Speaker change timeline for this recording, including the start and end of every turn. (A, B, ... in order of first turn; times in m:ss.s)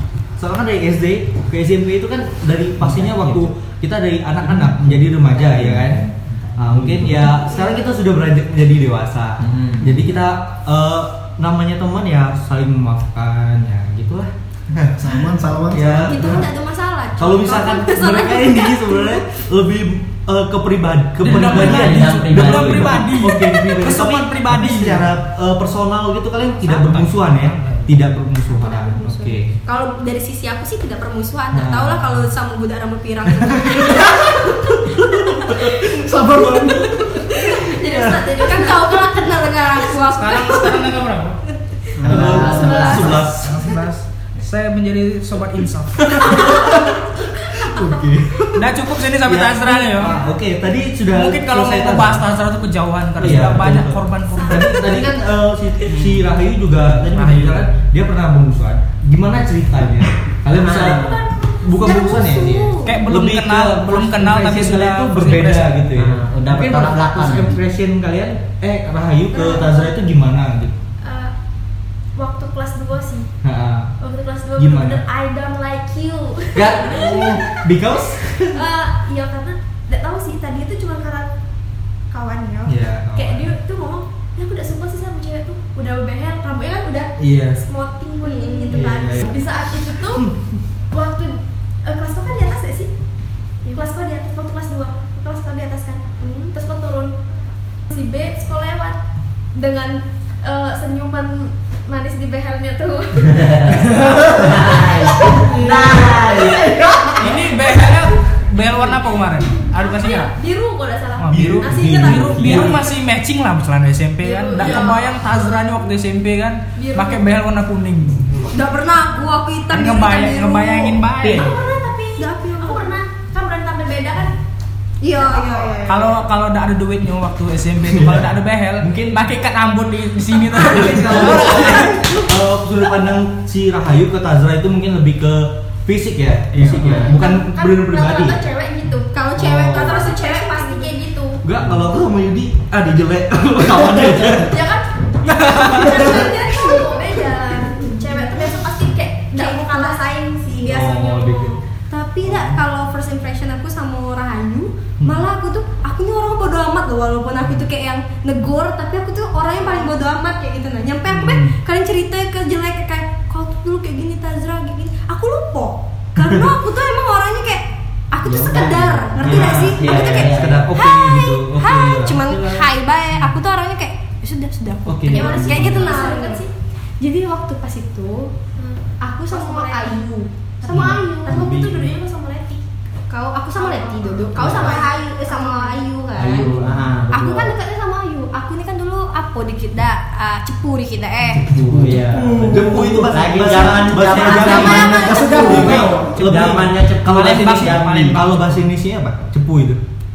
0:00.4-0:15.0 A
0:02.8-0:03.5 B
0:04.6-0:07.3 B
0:07.4-0:07.8 C
0:09.4-0:10.2 B
0:15.0-0:16.5 D
0:15.7-0:16.5 A
0:16.1-0:19.2 E
0:17.2-0:29.6 A
0:21.2-0:25.1 F
0:21.2-0:23.0 B
0:26.6-0:27.9 F
0:28.5-0:41.0 E
0:31.5-0:32.2 A
0:33.4-0:36.9 A
0:35.8-0:36.9 D
0:37.3-0:40.0 C
0:37.8-0:38.2 A
0:40.1-0:41.4 F
0:41.5-0:43.1 E
0:42.0-0:43.2 B
0:42.0-0:43.7 A
0:42.1-0:42.5 D
0:42.4-0:43.3 C
0:43.4-0:46.5 F
0:46.0-0:48.7 A
0:46.3-0:48.0 C
0:48.6-0:50.2 F
0:49.2-0:52.2 A
0:51.1-0:55.0 F
0:53.2-1:10.8 A
0:54.3-0:55.0 C
0:57.0-0:57.7 F
1:00.5-1:01.2 B
1:00.8-1:01.7 C
1:01.7-1:03.0 E
1:02.8-1:05.8 F
1:05.9-1:07.6 B
1:09.3-1:10.0 C
1:11.0-1:11.3 C
1:12.2-1:13.3 C
1:13.4-1:13.9 A
1:14.0-1:17.7 C
1:14.6-1:15.0 A
1:16.5-1:18.6 A
1:18.5-1:21.3 C
1:22.1-1:27.1 C
1:22.6-1:23.5 A
1:27.2-1:27.6 A
1:27.7-1:30.3 C
1:28.2-1:28.8 E
1:28.7-1:29.4 A
1:30.9-1:32.9 C
1:33.6-1:37.1 C
1:37.9-1:39.0 C
1:39.5-1:44.0 C
1:43.2-1:47.3 B
1:44.9-1:45.9 C
1:46.4-1:47.8 C
1:47.2-1:50.3 F
1:49.7-1:53.0 C
1:51.2-1:58.3 F
1:51.3-1:52.8 A
1:52.3-1:52.8 B
1:54.2-1:55.4 C
1:54.6-1:54.9 E
1:56.8-1:57.2 C
1:58.5-2:01.1 E
1:59.7-2:01.6 F
2:01.2-2:01.5 B
2:01.2-2:04.4 C
2:02.2-2:03.0 E
2:05.0-2:06.1 E
2:05.1-2:05.9 C
2:05.9-2:12.1 F
2:07.9-2:09.2 A
2:10.6-2:18.4 A
2:11.6-2:12.0 E
2:11.8-2:12.2 C
2:16.5-2:17.0 F
2:16.8-2:17.1 B
2:17.0-2:21.4 C
2:19.1-2:20.9 E
2:19.3-2:20.1 A
2:21.4-2:24.5 A
2:24.4-2:31.6 C
2:25.2-2:26.1 F
2:29.3-2:31.0 E
2:30.6-2:31.6 A
2:31.9-2:56.4 E
2:32.2-2:32.6 A
2:35.0-2:35.2 A
2:48.2-2:50.6 B
2:49.1-2:52.7 A
2:54.8-2:56.0 A
2:55.1-2:56.5 C
2:57.0-2:58.3 E
2:58.6-3:00.0 C
2:59.0-3:01.5 E
3:00.6-3:02.6 C
3:00.7-3:01.9 A
3:03.1-3:06.6 E
3:03.5-3:05.9 C
3:04.4-3:04.8 B
3:06.2-3:06.8 A
3:06.2-3:07.5 B
3:07.1-3:11.4 E
3:11.4-3:19.8 A
3:11.5-3:18.2 B
3:11.5-3:13.1 D
3:14.1-3:15.9 E
3:14.8-3:16.2 D
3:15.4-3:18.6 F